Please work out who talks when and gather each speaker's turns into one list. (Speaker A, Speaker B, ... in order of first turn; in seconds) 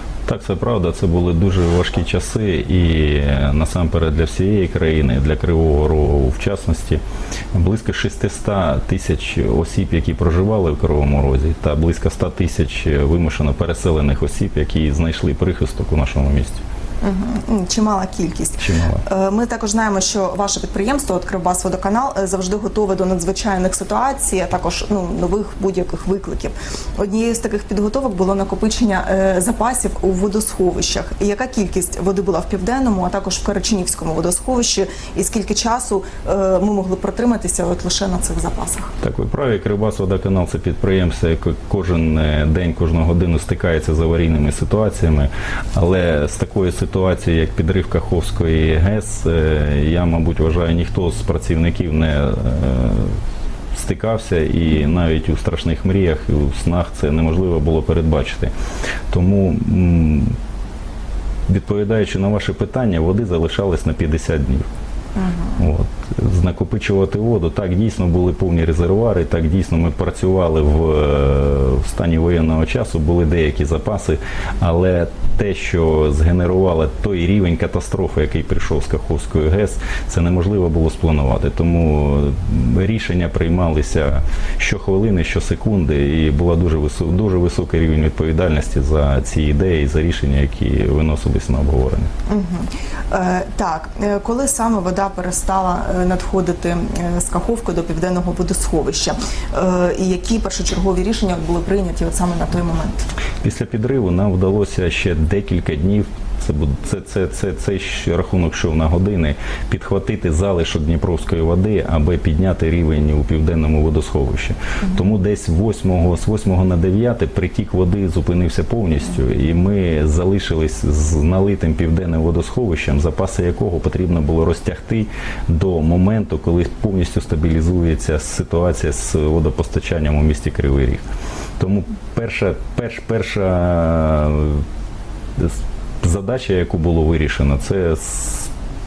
Speaker A: 0.3-7.0, 7.5-16.6, 18.6-19.0, 39.0-53.2, 53.8-58.5, 59.1-60.4, 61.5-64.7, 65.6-92.1, 103.4-131.0, 131.6-134.6, 135.4-138.5
Speaker B: 17.0-38.9, 65.2-65.7, 92.3-103.1